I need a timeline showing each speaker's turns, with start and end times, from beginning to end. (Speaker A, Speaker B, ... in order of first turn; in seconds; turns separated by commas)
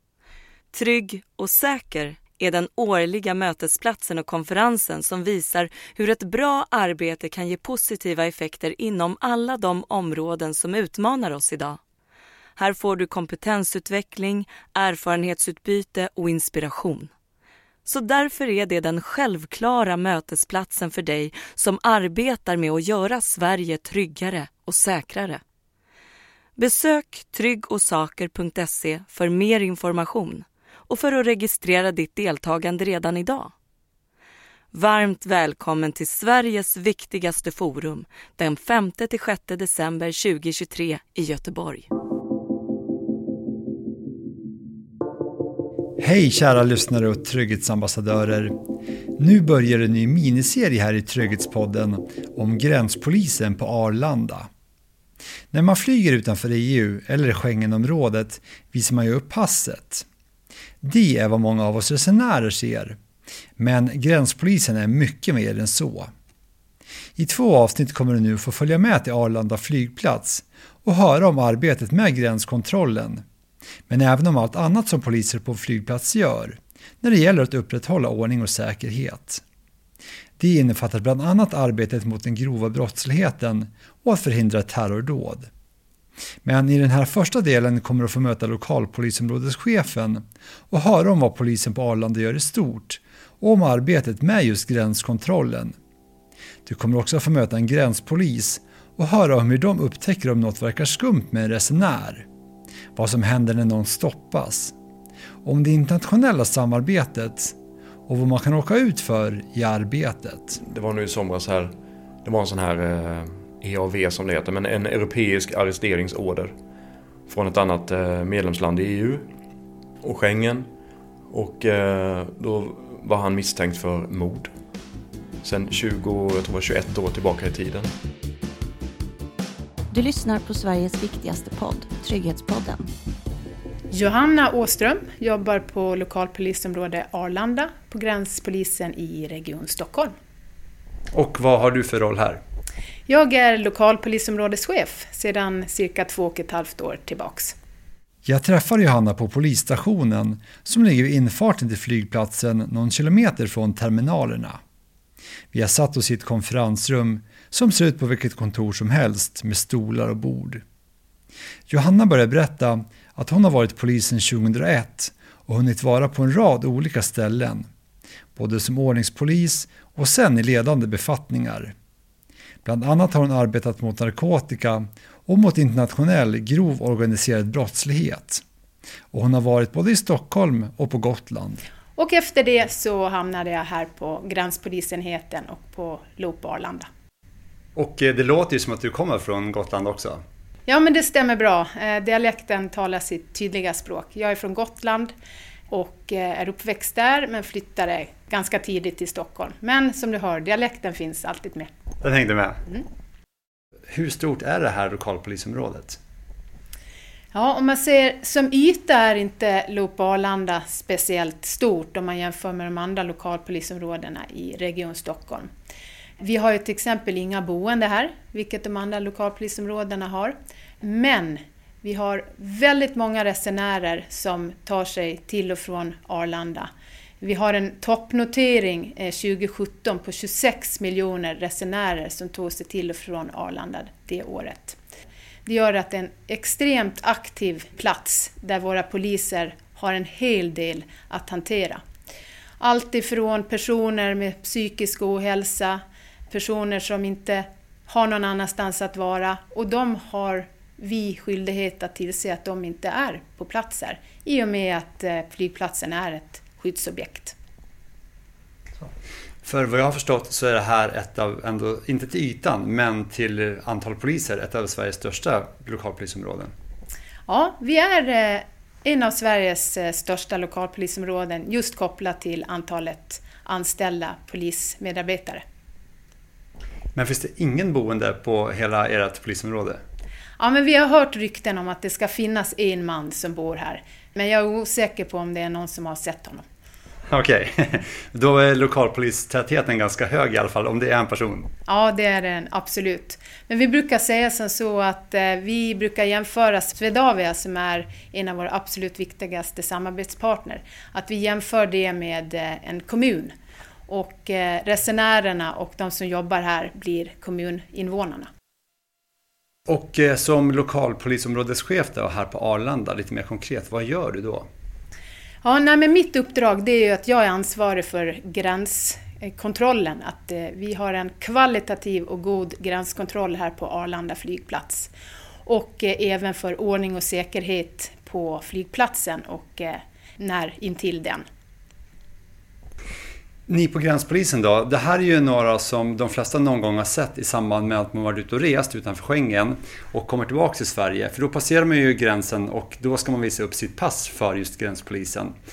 Speaker A: 0.7-11.8, Speaker A: 12.6-17.1, Speaker A: 17.8-25.4, Speaker A: 26.6-33.5, Speaker A: 34.7-41.9, Speaker B: 46.0-48.5, Speaker B: 49.2-54.5, Speaker B: 55.5-60.0, Speaker B: 60.8-63.0, Speaker B: 63.6-66.1, Speaker B: 67.2-73.2, Speaker B: 73.9-79.4, Speaker B: 80.4-85.5, Speaker B: 86.4-95.8, Speaker B: 96.7-102.3, Speaker B: 102.9-104.7, Speaker B: 105.4-107.5, Speaker B: 108.1-110.6, Speaker C: 110.6-111.7, Speaker C: 112.2-116.5, Speaker C: 117.3-119.2, Speaker C: 120.0-120.7, Speaker C: 121.3-124.5, Speaker C: 125.4-127.9, Speaker D: 129.9-132.9, Speaker E: 133.9-140.1, Speaker B: 141.1-142.4, Speaker E: 143.1-147.5, Speaker B: 148.2-154.6, Speaker B: 155.5-160.6, Speaker B: 161.7-167.7, Speaker B: 168.3-171.7, Speaker B: 172.6-178.4, Speaker B: 179.1-181.6, Speaker E: 182.0-186.9, Speaker B: 187.7-190.2, Speaker E: 190.7-195.1, Speaker E: 195.7-201.7, Speaker B: 202.0-202.6, Speaker B: 203.9-206.0, Speaker E: 207.3-215.5, Speaker E: 216.2-226.7, Speaker E: 227.2-234.8, Speaker E: 235.4-241.8, Speaker E: 242.6-257.3, Speaker B: 259.4-266.5, Speaker E: 267.3-275.4, Speaker B: 276.9-279.8, Speaker E: 280.4-286.4, Speaker B: 287.1-291.5, Speaker E: 291.7-303.3, Speaker E: 303.9-308.3, Speaker B: 309.7-314.5, Speaker E: 315.4-324.9, Speaker E: 325.4-331.2, Speaker B: 333.5-345.3